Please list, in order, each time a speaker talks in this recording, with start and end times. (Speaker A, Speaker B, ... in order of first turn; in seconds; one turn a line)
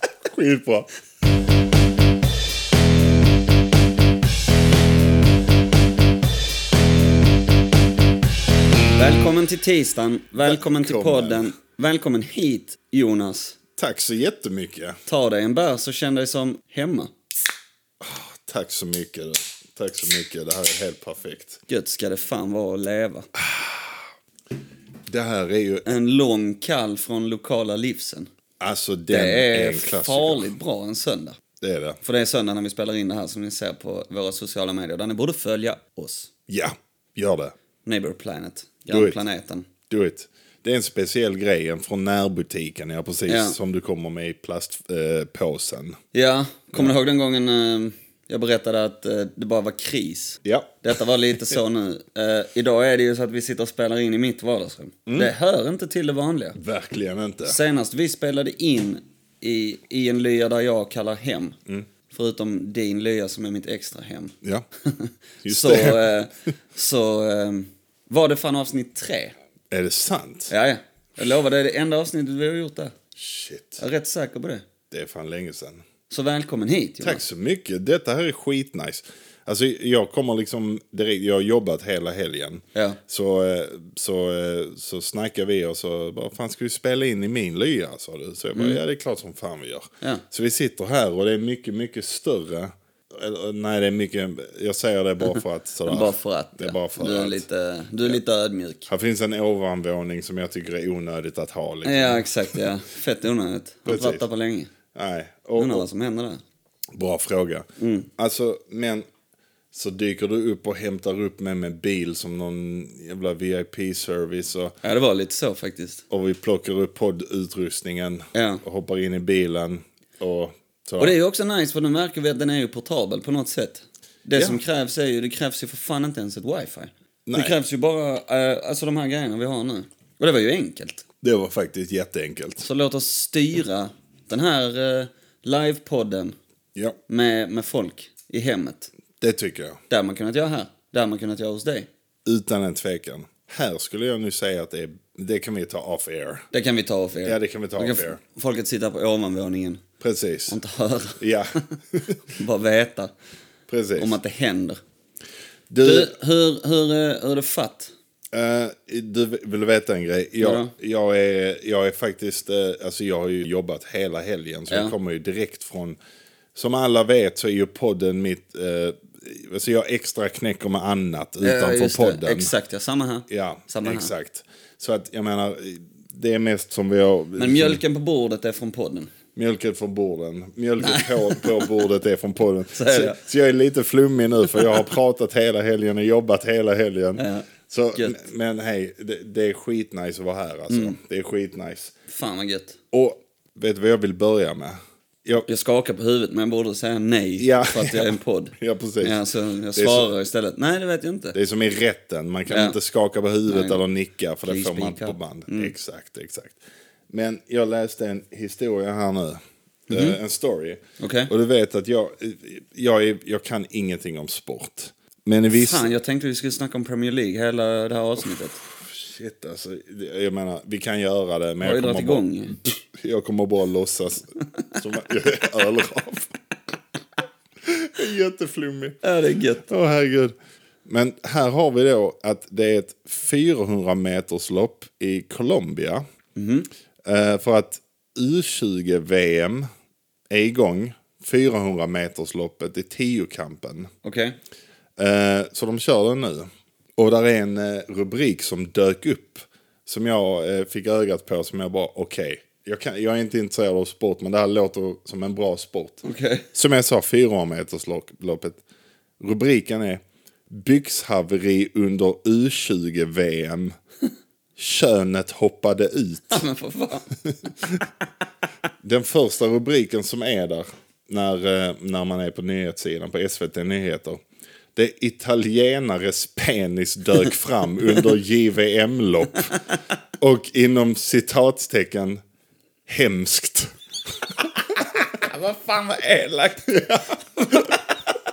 Speaker A: 0.3-0.9
Speaker B: 8.9-13.6
Speaker A: 10.4-11.5
Speaker A: 13.8-15.0
Speaker B: 15.1-17.1
Speaker A: 18.0-21.6
Speaker B: 21.7-23.3
Speaker A: 23.3-24.0
Speaker A: 25.1-25.9
Speaker B: 25.9-28.3
Speaker A: 28.6-30.5
Speaker B: 29.1-31.4
Speaker A: 31.6-32.0
Speaker B: 32.0-36.3
Speaker A: 36.5-37.5
Speaker B: 37.8-39.7
Speaker A: 38.9-39.2
Speaker A: 39.9-46.0
Speaker B: 43.3-43.6
Speaker B: 46.1-56.6
Speaker A: 50.4-50.8
Speaker A: 55.0-55.3
Speaker A: 56.5-57.6
Speaker B: 57.4-61.6
Speaker B: 62.1-69.3
Speaker A: 65.4-66.1
Speaker A: 69.7-70.5
Speaker B: 70.5-72.9
Speaker A: 73.2-73.8
Speaker B: 73.8-74.6
Speaker A: 74.9-75.8
Speaker B: 76.1-77.2
Speaker A: 77.0-97.4
Speaker B: 95.8-98.9
Speaker A: 98.9-102.6
Speaker B: 101.8-104.7
Speaker A: 103.8-104.2
Speaker A: 104.9-105.8
Speaker B: 105.6-106.4
Speaker A: 107.0-109.0
Speaker B: 107.8-108.1
Speaker A: 109.7-114.8
Speaker B: 114.8-116.0
Speaker A: 116.1-121.2
Speaker B: 118.3-118.6
Speaker B: 121.0-131.0
Speaker A: 124.3-124.6
Speaker A: 127.3-127.5
Speaker A: 131.2-132.7
Speaker B: 132.6-136.4
Speaker B: 137.1-138.9
Speaker A: 139.2-139.8
Speaker B: 139.9-141.9
Speaker A: 142.2-146.4
Speaker B: 146.5-149.8
Speaker A: 147.2-148.2
Speaker A: 150.0-150.6
Speaker B: 150.5-151.2
Speaker A: 151.2-152.2
Speaker B: 152.3-153.1
Speaker A: 153.7-154.2
Speaker B: 153.9-154.8
Speaker A: 155.7-156.1
Speaker B: 155.8-157.9
Speaker A: 158.3-166.0
Speaker B: 160.4-160.7
Speaker A: 166.5-172.5
Speaker B: 171.4-174.1
Speaker A: 173.3-177.8
Speaker B: 177.4-179.1
Speaker A: 179.3-192.0
Speaker B: 180.8-181.8
Speaker B: 182.7-183.2
Speaker B: 187.2-188.2
Speaker B: 190.7-191.0
Speaker B: 192.1-192.8
Speaker A: 192.9-195.4
Speaker B: 195.4-201.3
Speaker A: 197.4-199.2
Speaker A: 199.7-200.1
Speaker A: 201.3-206.6
Speaker B: 202.5-202.8
Speaker B: 203.5-203.8
Speaker B: 204.4-205.7
Speaker A: 207.1-215.9
Speaker B: 209.9-210.2
Speaker B: 211.0-211.3
Speaker B: 215.5-218.6
Speaker A: 218.7-226.3
Speaker B: 221.6-222.6
Speaker A: 227.6-229.0
Speaker B: 229.0-229.7
Speaker A: 229.7-230.3
Speaker A: 230.8-236.0
Speaker B: 236.3-236.7
Speaker A: 237.0-239.7
Speaker A: 240.3-243.9
Speaker B: 244.0-244.3
Speaker A: 245.0-258.6
Speaker B: 256.0-256.4
Speaker A: 259.2-263.7
Speaker A: 264.6-266.4
Speaker B: 266.3-267.1
Speaker A: 267.2-267.9
Speaker A: 268.8-274.2
Speaker A: 274.7-279.6
Speaker A: 280.2-282.2
Speaker A: 282.9-283.7
Speaker B: 284.7-288.0
Speaker A: 286.7-287.7